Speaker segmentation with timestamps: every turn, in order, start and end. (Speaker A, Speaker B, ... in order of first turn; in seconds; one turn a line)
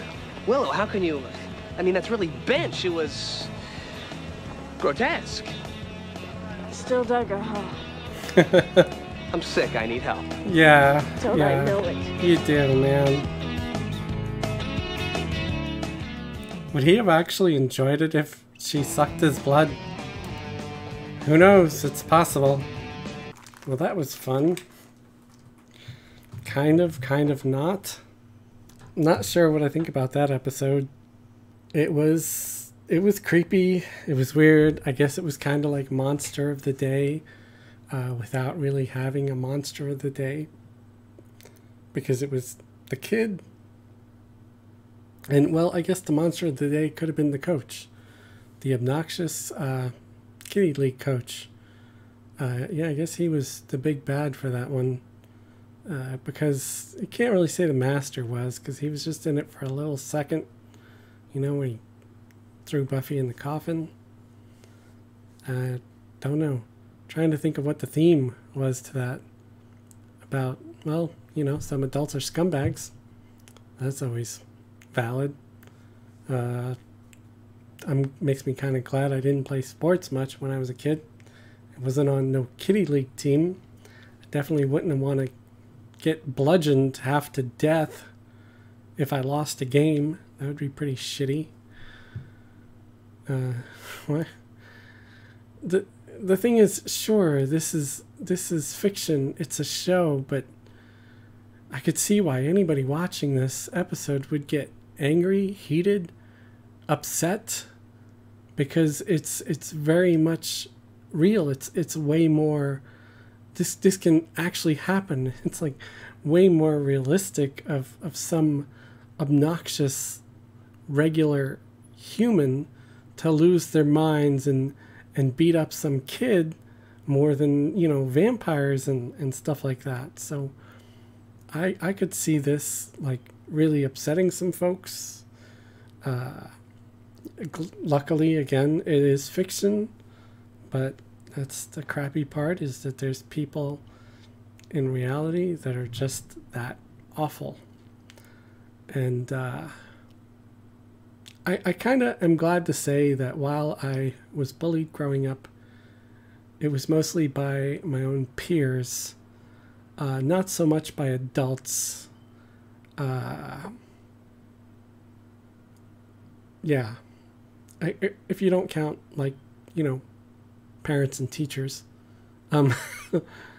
Speaker A: 0.5-3.5
Speaker A: 4.8-5.5
Speaker B: 6.7-7.8
Speaker C: 8.3-8.9
Speaker A: 9.3-10.3
Speaker C: 10.4-13.3
Speaker B: 11.2-12.1
Speaker C: 16.7-19.8
Speaker C: 21.2-22.7
Speaker C: 23.6-24.6
Speaker C: 26.4-28.0
Speaker C: 29.0-30.9
Speaker C: 31.7-37.2
Speaker C: 37.9-40.5
Speaker C: 41.9-43.4
Speaker C: 45.3-47.9
Speaker C: 48.6-49.9
Speaker C: 50.5-51.5
Speaker C: 52.4-55.0
Speaker C: 55.9-60.5
Speaker C: 61.3-61.8
Speaker C: 62.7-63.9
Speaker C: 65.5-69.2
Speaker C: 70.3-72.9
Speaker C: 73.8-74.4
Speaker C: 74.9-75.4
Speaker C: 76.3-76.8
Speaker C: 77.8-81.1
Speaker C: 81.8-83.6
Speaker C: 84.3-85.3
Speaker C: 86.0-88.1
Speaker C: 89.0-91.5
Speaker C: 93.3-94.3
Speaker C: 95.6-100.5
Speaker C: 101.7-106.1
Speaker C: 106.9-107.7
Speaker C: 108.6-112.8
Speaker C: 113.5-118.7
Speaker C: 119.2-120.2
Speaker C: 120.9-130.5
Speaker C: 131.5-135.2
Speaker C: 136.0-136.5
Speaker C: 137.4-139.9
Speaker C: 140.7-143.8
Speaker C: 144.7-147.6
Speaker C: 148.9-149.7
Speaker C: 151.4-155.5
Speaker C: 156.6-159.2
Speaker C: 160.0-162.1
Speaker C: 163.0-163.8
Speaker C: 166.6-167.0
Speaker C: 167.8-170.0
Speaker C: 170.8-171.8
Speaker C: 172.5-173.3